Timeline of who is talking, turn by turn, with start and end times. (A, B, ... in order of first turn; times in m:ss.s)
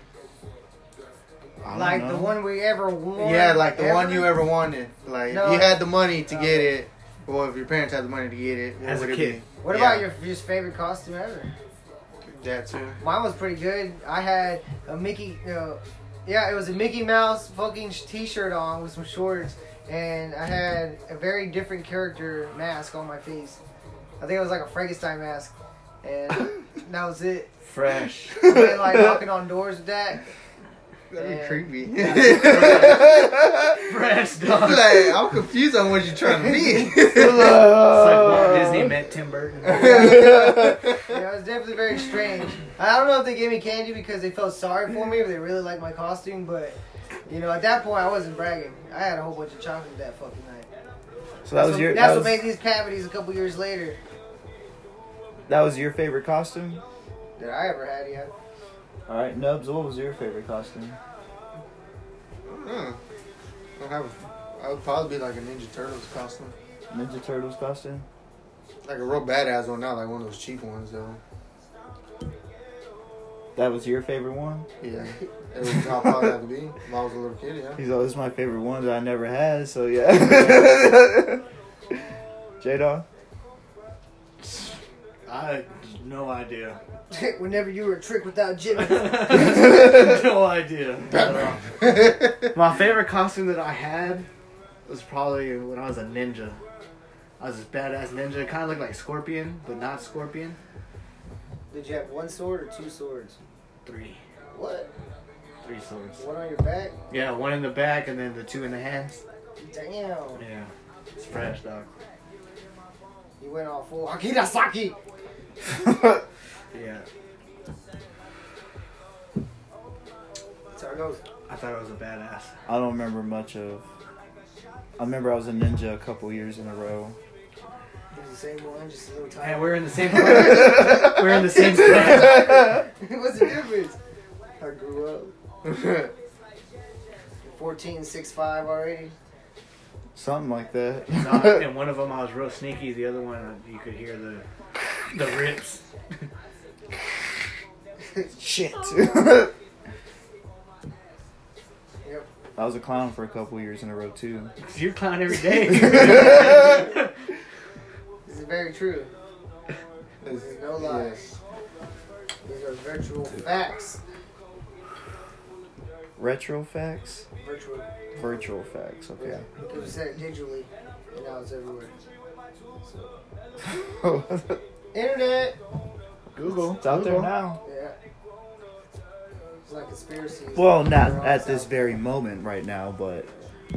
0:01.6-0:02.4 A
0:01.7-0:04.3 B
0:03.2-0:10.1 C
0:05.3-0:06.7 B
0:08.8-0:09.4 D
0:09.6-0:11.5 B
0:12.2-0:13.0 C
0:13.0-0:23.6 B
0:24.2-0:27.5 B
0:27.6-0:28.4 D
0:28.4-0:30.2 B
0:28.4-0:29.2 A
0:31.1-0:33.3 C
0:31.2-0:31.7 B
0:31.9-0:33.1 D
0:32.6-0:33.8 A
0:33.8-0:35.2 D
0:34.4-0:37.6 C
0:36.5-0:36.9 B
0:37.1-0:39.0 A
0:37.7-0:39.9 D
0:39.6-0:41.2 C
0:39.6-0:50.7 B
0:39.9-0:40.8 A
0:51.4-0:52.4 A
0:51.7-0:54.0 B
0:55.5-0:56.8 A
0:57.4-0:58.3 B
0:59.1-1:01.0 A
1:02.4-1:03.0 C
1:03.8-1:06.6 C
1:06.9-1:08.1 A
1:08.8-1:11.2 C
1:13.6-1:14.7 A
1:14.8-1:17.8 C
1:16.0-1:16.3 A
1:17.8-1:21.4 A
1:22.6-1:23.1 A
1:25.3-1:26.8 D
1:27.1-1:29.5 B
1:28.8-1:31.8 D
1:31.8-1:32.3 C
1:32.5-1:34.3 D
1:34.9-1:36.6 D
1:37.4-1:40.6 D
1:41.7-1:43.4 B
1:43.8-1:44.2 D
1:44.5-1:44.9 B
1:45.6-1:46.2 D
1:46.2-1:47.0 B
1:47.1-1:49.2 D
1:49.6-1:50.4 B
1:50.4-1:51.9 D
1:53.4-1:55.0 B
1:55.7-1:56.2 A
1:56.7-1:57.1 D
2:00.7-2:01.2 B
2:01.5-2:02.6 D
2:02.7-2:03.8 A
2:05.0-2:07.2 A
2:08.1-2:14.0 B
2:09.4-2:12.6 D
2:14.6-2:15.3 B
2:15.6-2:16.1 C
2:17.4-2:19.2 B
2:20.2-2:21.7 A
2:21.2-2:24.4 D
2:25.1-2:25.8 D
2:28.3-2:29.5 A
2:32.6-2:34.5 A
2:34.6-2:37.1 D
2:35.7-2:36.6 A
2:38.3-2:39.1 B
2:40.2-2:41.4 C
2:40.4-2:41.2 B
2:42.5-2:44.0 B
2:46.2-2:47.3 A
2:47.4-2:47.9 B
2:48.2-2:49.5 A
2:49.2-2:51.9 B
2:52.8-2:53.1 B
2:53.9-2:54.6 A
2:54.9-2:55.6 B
2:56.4-2:57.3 D
2:56.8-2:57.6 A
2:57.6-2:58.0 B
2:59.6-3:02.0 B
3:00.5-3:03.3 A